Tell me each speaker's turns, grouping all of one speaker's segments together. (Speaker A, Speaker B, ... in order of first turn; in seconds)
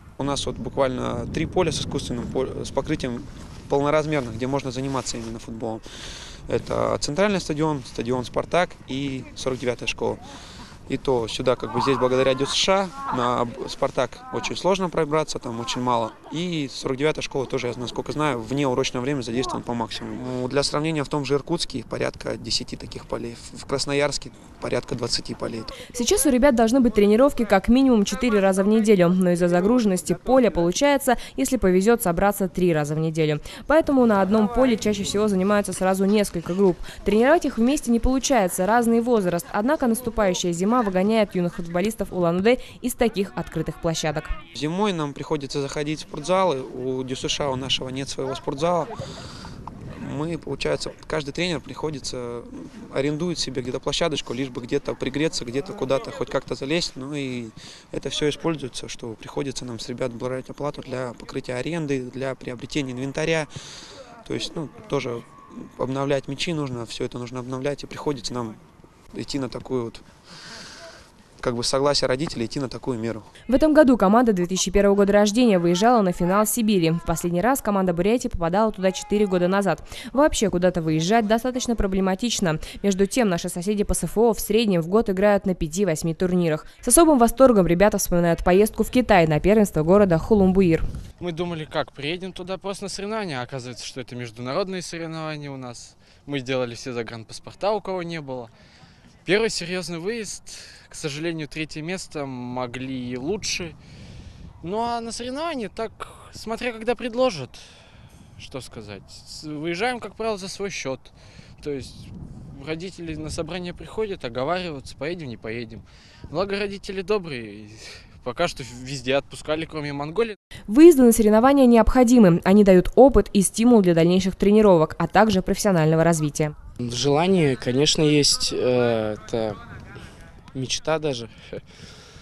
Speaker A: 0.2-5.8, 6.5-10.2, 10.9-25.8, 44.5-48.9, 49.9-63.5, 64.2-68.6, 69.1-70.0, 71.4-73.3
Speaker B: 25.8-44.4, 73.5-90.9, 120.7-126.5
Speaker C: 91.2-98.5, 99.2-103.8, 104.6-107.7, 108.4-120.4
Speaker D: 126.8-129.6, 130.5-131.6